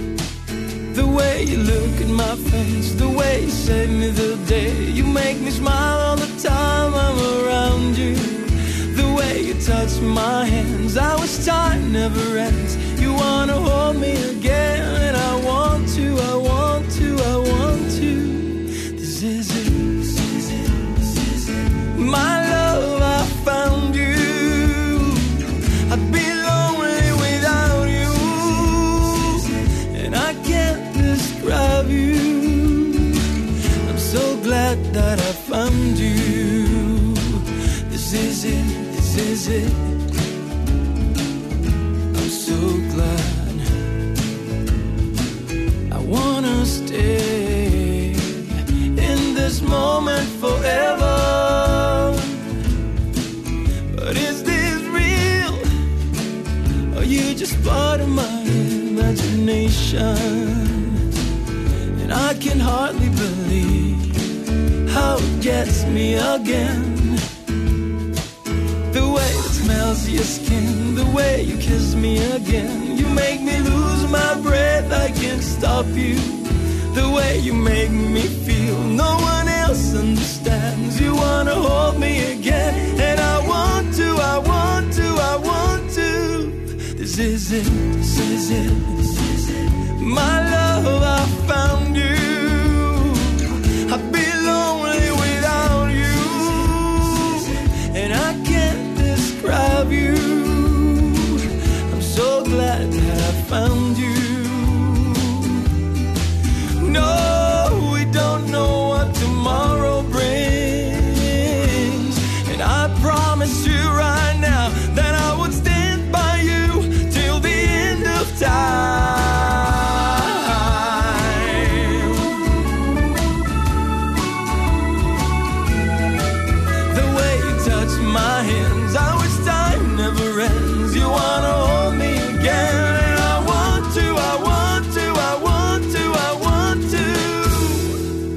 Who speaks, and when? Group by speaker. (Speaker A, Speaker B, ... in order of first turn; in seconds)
Speaker A: 0.9-40.0, 42.1-43.9, 45.9-52.6, 53.9-55.7, 56.9-61.1, 61.9-64.3, 64.8-67.2, 68.9-105.8, 106.8-122.6, 126.9-138.0